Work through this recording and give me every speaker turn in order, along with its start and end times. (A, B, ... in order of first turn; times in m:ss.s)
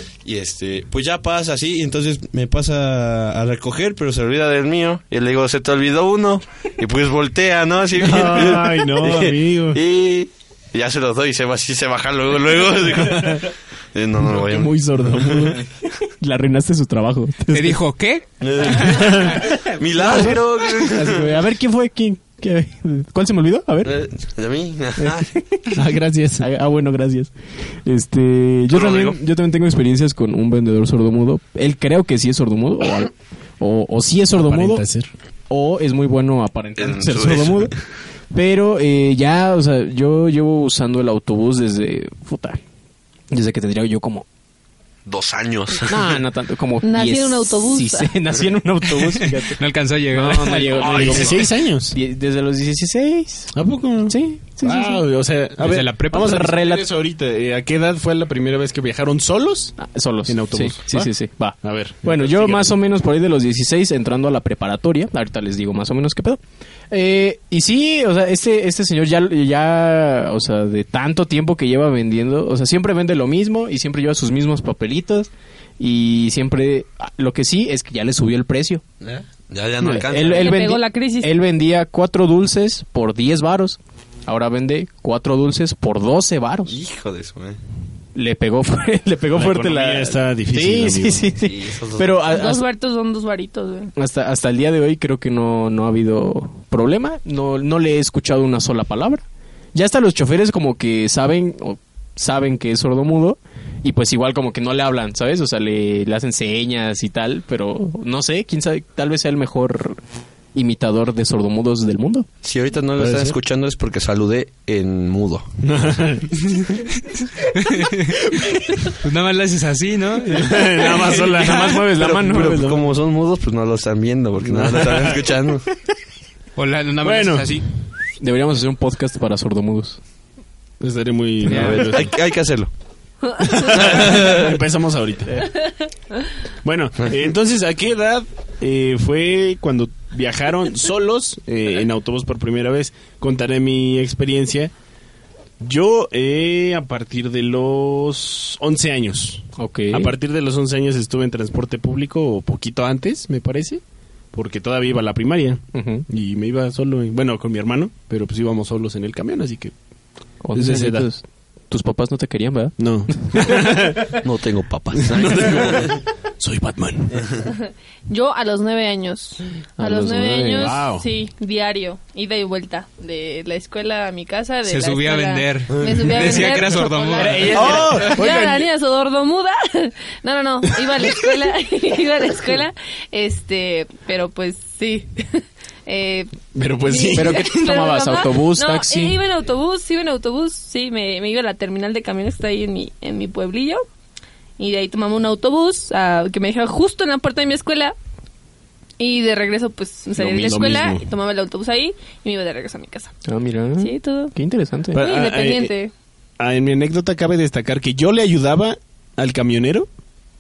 0:00.2-0:15.5 A
0:08.0-0:09.8 B
0:14.2-0:15.6 B
0:16.0-0:17.8 C
0:17.5-0:19.1 D
0:18.4-0:21.4 A
0:18.9-0:19.4 B
0:20.0-0:24.0 C
0:23.8-0:25.3 A
0:25.0-0:25.8 C
0:25.7-0:26.5 B
0:26.4-0:27.3 C
0:27.8-0:34.8 C
0:28.7-0:29.2 A
0:34.3-0:35.1 B
0:35.5-0:37.8 C
0:36.8-0:37.8 A
0:38.3-0:42.6 C
0:43.3-0:44.3 C
0:45.1-0:46.2 A
0:45.9-0:49.6 C
0:46.8-0:48.1 E
0:49.4-0:51.3 D
0:50.1-0:55.0 C
0:50.6-0:52.0 B
0:53.5-1:02.8 B
0:55.6-0:56.5 D
0:56.3-0:56.8 C
0:59.8-1:06.4 C
1:06.9-1:18.8 C
1:19.0-1:20.7 A
1:19.8-1:26.8 C
1:20.2-1:21.3 E
1:26.7-1:27.6 A
1:28.2-1:32.7 C
1:29.3-1:31.3 B
1:31.4-1:32.2 A
1:32.3-1:33.9 E
1:34.0-1:50.0 C
1:50.6-1:52.3 C
1:52.4-1:55.5 A
1:53.0-1:53.4 B
1:55.6-1:56.3 B
1:57.4-2:01.6 D
2:00.3-2:02.8 B
2:01.2-2:02.6 C
2:02.0-2:05.6 A
2:04.4-2:05.3 B
2:06.6-2:07.6 D
2:07.0-2:07.6 B
2:08.2-2:10.0 C
2:10.8-2:12.1 B
2:11.5-2:12.0 D
2:11.5-2:12.7 A
2:13.4-2:13.7 E
2:13.4-2:15.5 B
2:13.7-2:14.6 A
2:16.6-2:24.7 B
2:25.6-2:33.8 B
2:29.6-2:30.1 C
2:34.3-2:39.7 B
2:35.7-2:36.0 C
2:40.4-2:43.7 C
2:40.6-2:41.1 B
2:42.8-2:44.2 B
2:44.1-2:46.0 A
2:45.0-2:47.3 B
2:47.4-3:13.8 E
2:49.8-2:50.8 C
2:50.6-2:51.1 B
2:54.6-2:58.3 D
2:55.7-2:56.0 A
2:57.2-2:58.7 B
2:57.4-2:58.3 C
3:06.5-3:07.5 B
3:07.1-3:09.2 C
3:14.6-3:18.0 E
3:19.0-3:23.2 E
3:20.2-3:21.1 B
3:23.3-3:25.0 C
3:23.8-3:24.3 E
3:24.9-3:25.9 E
3:25.0-3:25.7 B
3:26.4-3:29.9 B